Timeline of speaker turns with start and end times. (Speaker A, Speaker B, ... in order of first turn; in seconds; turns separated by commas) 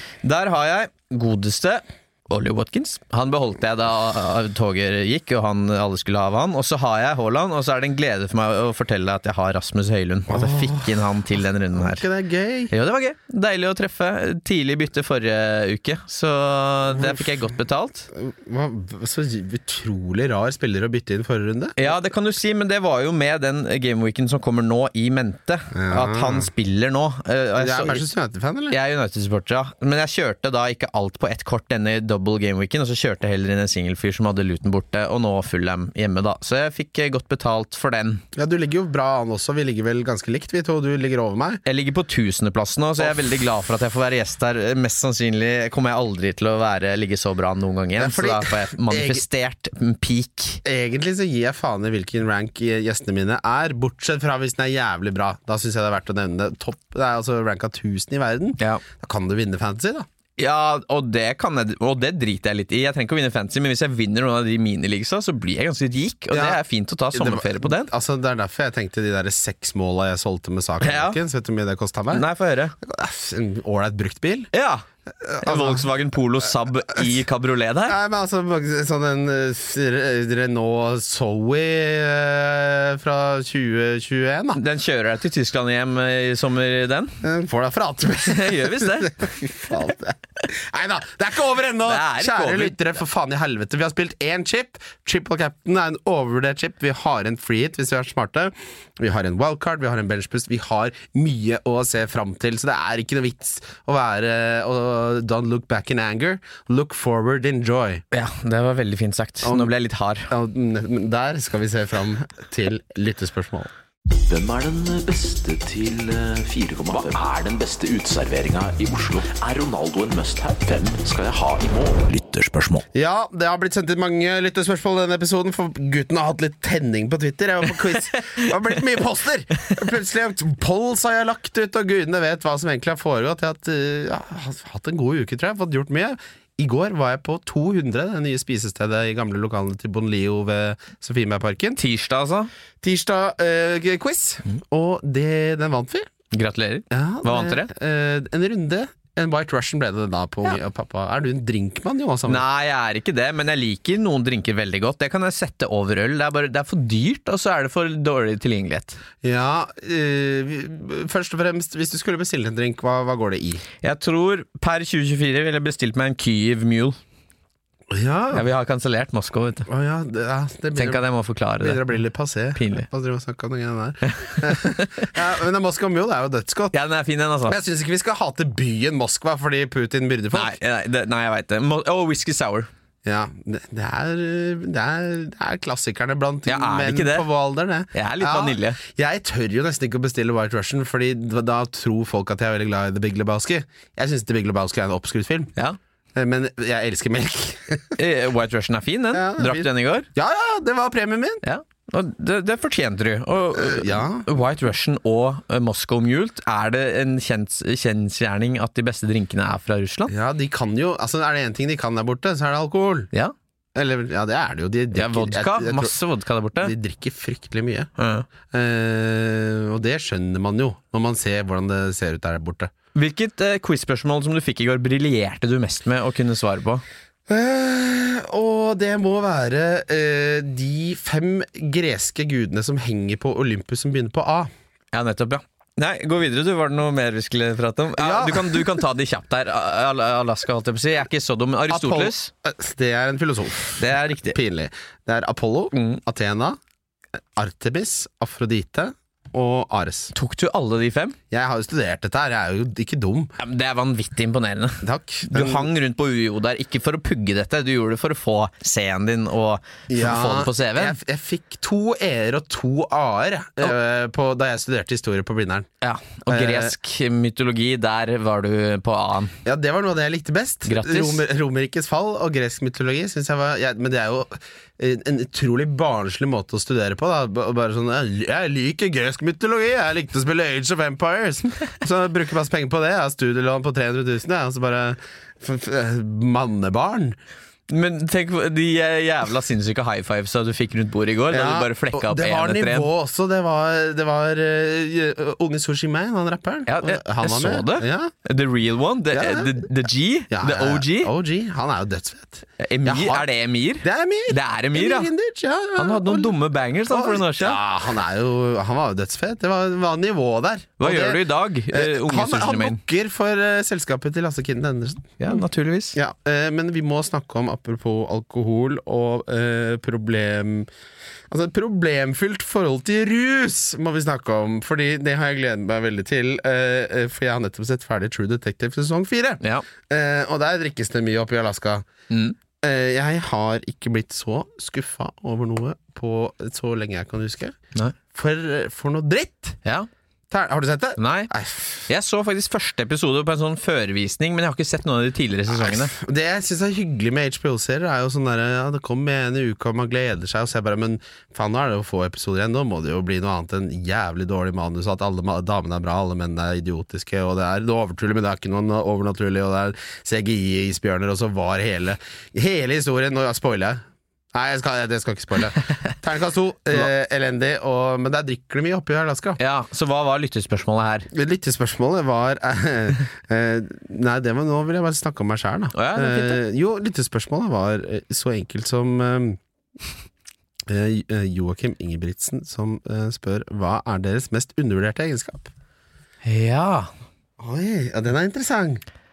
Speaker A: 0.2-12.0, Speaker B: 10.3-12.7, Speaker A: 12.7-18.1, Speaker B: 16.9-17.4, Speaker B: 18.1-21.9, Speaker A: 21.8-28.0, Speaker B: 25.7-26.5, Speaker B: 27.6-28.8, Speaker A: 28.7-38.2, Speaker B: 38.3-41.6, Speaker A: 41.6-50.6, Speaker B: 48.0-49.2, Speaker B: 50.6-60.1, Speaker A: 60.4-67.9, Speaker B: 66.3-66.6, Speaker B: 67.1-72.2, Speaker A: 70.8-71.2, Speaker A: 72.1-72.8, Speaker B: 72.8-74.5, Speaker A: 74.5-74.8, Speaker B: 75.2-75.8, Speaker A: 75.4-78.0, Speaker B: 77.9-84.6, Speaker A: 84.5-87.2, Speaker B: 87.2-108.0, Speaker A: 88.2-89.3, Speaker A: 91.8-92.8, Speaker A: 108.1-110.3, Speaker B: 109.4-109.7, Speaker B: 110.3-113.7, Speaker C: 114.2-122.8, Speaker B: 122.9-141.8, Speaker A: 141.8-142.5, Speaker B: 142.8-146.1, Speaker A: 146.3-147.7, Speaker B: 146.9-152.4, Speaker A: 152.3-159.0, Speaker B: 159.2-163.6, Speaker A: 163.8-167.0, Speaker B: 167.9-168.4, Speaker A: 168.3-169.7, Speaker B: 169.7-171.0, Speaker A: 170.8-171.8, Speaker B: 171.6-176.7, Speaker A: 172.5-172.9, Speaker A: 174.1-175.1, Speaker A: 176.7-177.6, Speaker B: 177.4-180.6, Speaker A: 180.3-182.7, Speaker B: 183.0-195.5, Speaker A: 186.5-187.3, Speaker A: 187.9-188.8, Speaker B: 196.1-198.0, Speaker A: 198.0-200.1, Speaker B: 199.1-201.4, Speaker A: 201.4-210.1, Speaker B: 203.5-204.3, Speaker B: 210.1-213.1, Speaker B: 213.7-215.9, Speaker A: 214.9-216.7, Speaker B: 216.6-217.9, Speaker A: 218.0-218.2, Speaker B: 218.5-222.7, Speaker A: 222.9-226.8, Speaker B: 227.3-234.5, Speaker A: 234.9-242.3, Speaker B: 238.0-238.7, Speaker B: 241.7-246.6, Speaker A: 243.8-244.4, Speaker A: 245.7-246.0, Speaker B: 247.4-250.1, Speaker A: 250.1-251.2, Speaker B: 251.3-253.3, Speaker A: 253.4-261.0, Speaker B: 254.8-255.7, Speaker B: 259.9-265.7, Speaker A: 265.8-269.3, Speaker B: 266.3-266.7, Speaker B: 269.4-287.1, Speaker A: 270.6-271.2, Speaker A: 287.7-292.9, Speaker B: 291.3-298.1, Speaker A: 296.7-301.1, Speaker B: 299.1-299.6, Speaker B: 300.3-303.3, Speaker A: 302.6-305.1, Speaker B: 303.8-306.4, Speaker A: 305.8-307.6, Speaker B: 306.9-315.4, Speaker A: 310.8-312.8, Speaker A: 315.2-316.0, Speaker B: 315.9-320.7, Speaker B: 321.3-331.9, Speaker A: 329.4-329.6, Speaker A: 332.1-332.4, Speaker B: 332.6-337.5, Speaker B: 338.1-339.6, Speaker B: 340.3-341.9, Speaker A: 341.0-341.3, Speaker A: 341.9-345.9, Speaker B: 345.5-369.4, Speaker A: 369.4-371.1, Speaker B: 371.1-379.4, Speaker A: 375.7-376.4, Speaker B: 380.7-385.5, Speaker A: 386.2-386.9, Speaker B: 387.4-388.8